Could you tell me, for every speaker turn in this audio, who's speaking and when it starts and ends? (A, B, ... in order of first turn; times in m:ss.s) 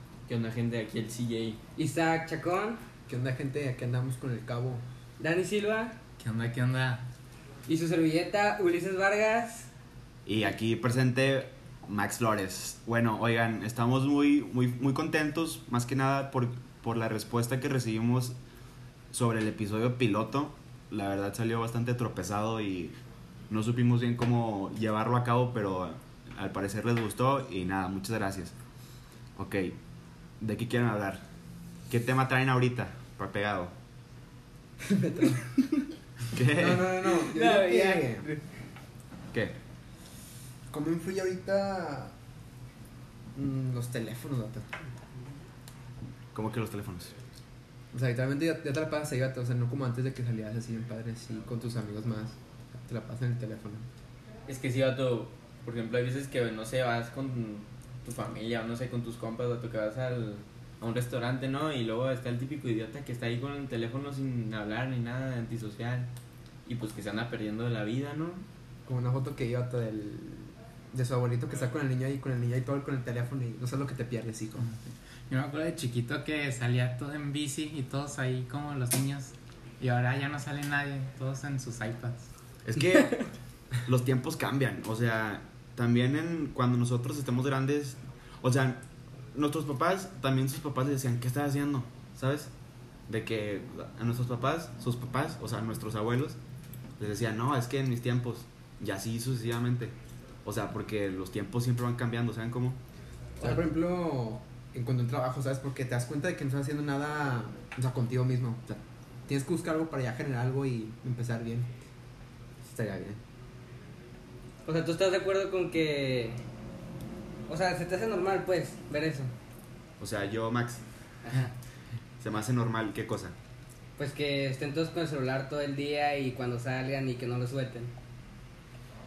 0:00.3-0:01.6 A
0:01.8-0:02.8 B
0:03.1-0:04.8 C
0:05.2-0:06.0 B
0:06.2-0:07.0 D
0:07.7-0:09.7 B
0:10.2-0:18.3 E
0:19.1-0:22.9 E
0:23.5-0:28.5 E
0:29.4-0:29.8 E
0:30.4-0:31.2 E
0:31.9-0:33.7 E
0:34.8-0:35.8 C
0:36.3-0:37.2 E
0:36.5-0:38.2 C
0:37.3-0:38.4 B
0:40.7-0:42.1 C
0:43.3-0:44.8 C
0:46.3-0:47.1 E
0:47.9-0:53.8 C
0:54.5-1:06.1 A
1:06.6-1:08.4 A
1:08.8-1:14.7 C
1:14.6-1:22.3 D
1:22.6-1:23.2 E
1:23.8-1:32.5 E
1:33.1-1:36.4 E
1:37.0-1:42.8 E
1:43.4-1:51.7 C
1:52.6-1:53.2 C
1:54.6-1:56.4 B
1:57.5-1:59.3 B
2:00.0-2:00.8 E
2:01.2-2:01.5 B
2:02.2-2:03.3 E
2:04.0-2:07.9 B